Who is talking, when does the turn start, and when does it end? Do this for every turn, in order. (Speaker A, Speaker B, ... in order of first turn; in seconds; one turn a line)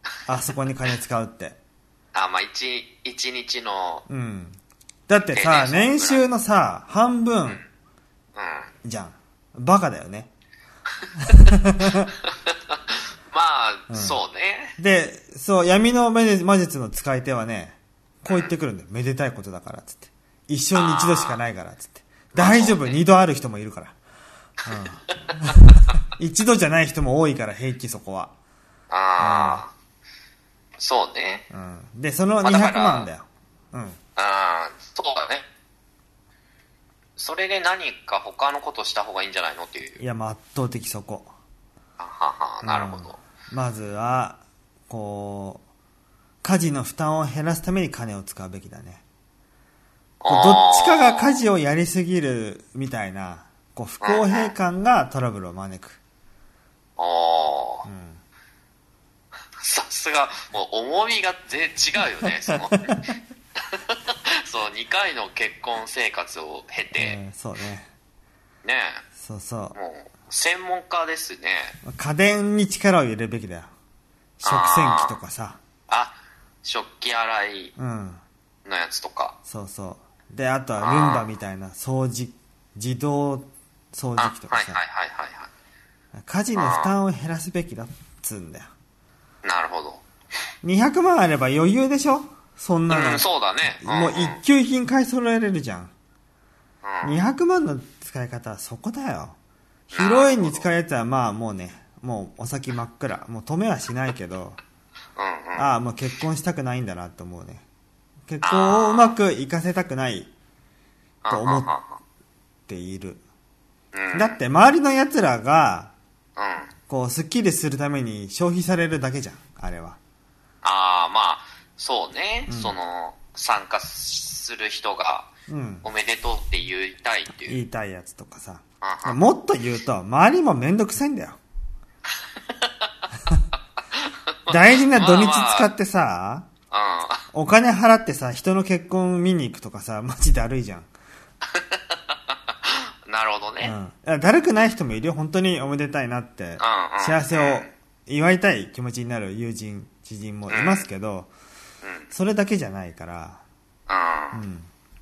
Speaker A: 0.3-1.6
Speaker B: 2.1-4.0
Speaker A: 4.1-7.6
Speaker B: 5.2-6.2
Speaker B: 8.3-8.7
Speaker A: 8.8-10.3
Speaker A: 11.3-12.1
Speaker B: 12.2-14.8
Speaker A: 13.9-14.2
Speaker A: 14.8-23.9
Speaker B: 18.2-18.5
Speaker B: 20.7-21.4
Speaker B: 22.3-23.0
Speaker A: 24.6-28.3
Speaker B: 28.9-29.7
Speaker A: 29.2-29.6
Speaker B: 30.8-31.4
Speaker A: 31.5-34.0
Speaker B: 32.4-33.1
Speaker B: 34.2-35.4
Speaker B: 37.2-40.0
Speaker A: 40.0-41.3
Speaker B: 42.0-43.2
Speaker A: 42.6-45.6
Speaker A: 46.4-49.0
Speaker B: 50.2-51.4
Speaker A: 50.3-56.0
Speaker B: 54.0-54.5
Speaker B: 57.0-57.9
Speaker A: 57.9-58.2
Speaker B: 59.6-63.1
Speaker A: 62.5-62.9
Speaker B: 63.7-67.2
Speaker A: 67.0-67.9
Speaker B: 68.6-69.0
Speaker A: 69.2-69.7
Speaker B: 69.7-71.8
Speaker A: 71.8-73.7
Speaker A: 74.4-75.6
Speaker B: 74.4-75.2
Speaker B: 75.9-77.7
Speaker A: 77.8-78.2
Speaker B: 78.6-79.3
Speaker A: 79.5-84.8
Speaker B: 80.8-81.2
Speaker B: 84.2-85.5
Speaker A: 86.1-88.7
Speaker B: 86.5-86.9
Speaker B: 89.4-90.0
Speaker A: 90.6-93.3
Speaker B: 92.9-94.4
Speaker A: 93.8-95.9
Speaker B: 96.8-97.2
Speaker A: 97.0-99.3
Speaker B: 99.9-100.6
Speaker A: 99.9-104.6
Speaker B: 105.2-105.7
Speaker A: 105.5-107.6
Speaker A: 108.3-110.3
Speaker B: 108.4-109.1
Speaker B: 111.2-112.0
Speaker A: 111.3-111.7
Speaker A: 112.7-113.2
Speaker B: 113.9-114.4
Speaker A: 114.1-115.9
Speaker B: 116.4-116.7
Speaker A: 116.9-120.0
Speaker B: 120.6-125.3
Speaker A: 122.5-122.7
Speaker A: 125.5-125.8
Speaker B: 125.8-127.6
Speaker A: 127.4-131.4
Speaker B: 128.8-129.2
Speaker B: 133.9-135.7
Speaker A: 134.5-136.5
Speaker B: 136.7-137.2
Speaker A: 137.3-140.9
Speaker B: 141.5-143.7
Speaker A: 143.6-151.3
Speaker B: 146.6-147.7
Speaker B: 150.5-150.8
Speaker B: 151.8-152.1
Speaker A: 152.1-153.4
Speaker B: 153.9-154.4
Speaker A: 154.3-154.7